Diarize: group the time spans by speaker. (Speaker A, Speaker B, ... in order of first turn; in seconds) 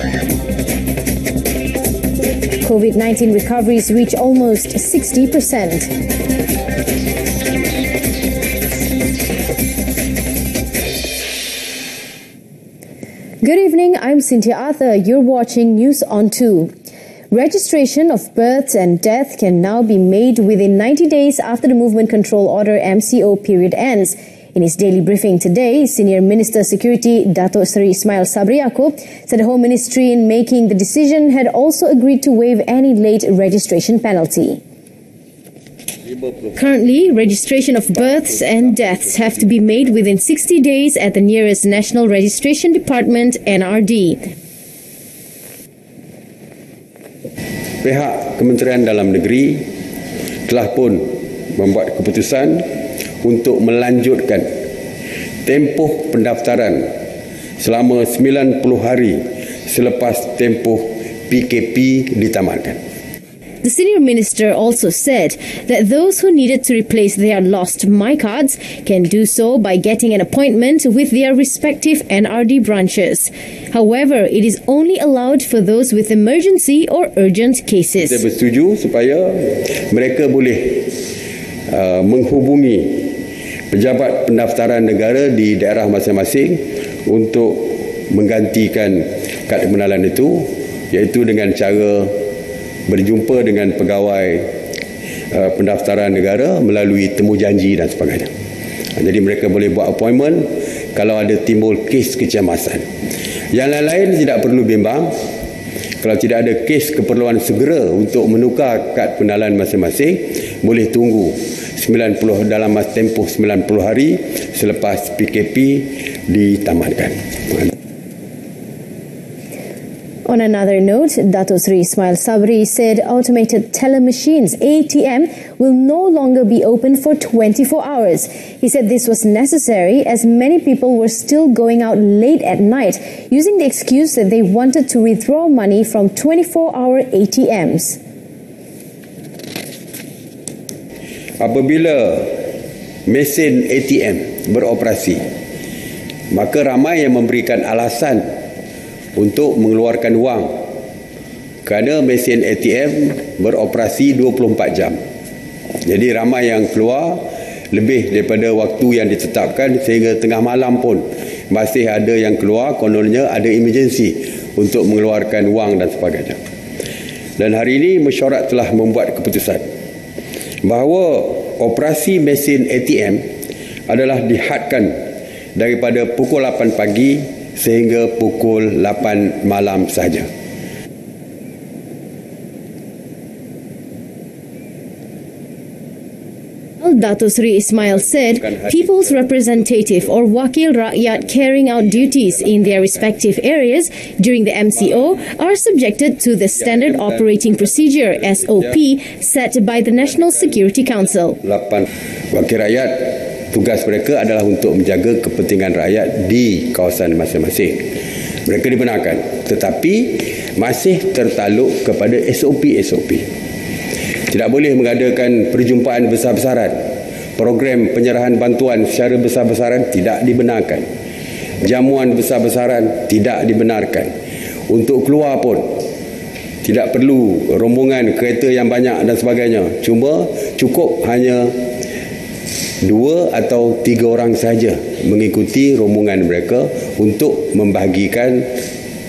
Speaker A: 2.6-5.9, 13.4-16.7, 17.3-34.6, 36.5-44.2, 63.6-78.2, 120.2-138.0, 186.8-201.4
Speaker B: 36.1-36.6, 38.4-39.0, 47.8-49.6, 50.5-52.6, 53.2-54.5, 55.4-56.9, 57.6-62.8, 78.0-80.9, 81.7-83.1, 83.7-92.2, 92.9-94.5, 95.3-98.3, 99.0-102.9, 103.5-105.2, 106.0-117.7, 141.4-142.4, 143.1-145.2, 146.3-148.2, 149.1-150.6, 151.7-155.0, 155.8-166.4, 167.4-169.6, 170.6-173.2, 173.9-174.9, 175.5-180.3, 188.4-188.7, 201.4-207.9, 208.4-213.2, 214.3-216.8, 217.4-220.9, 221.6-224.1, 224.7-225.8, 226.6-231.6, 232.8-238.5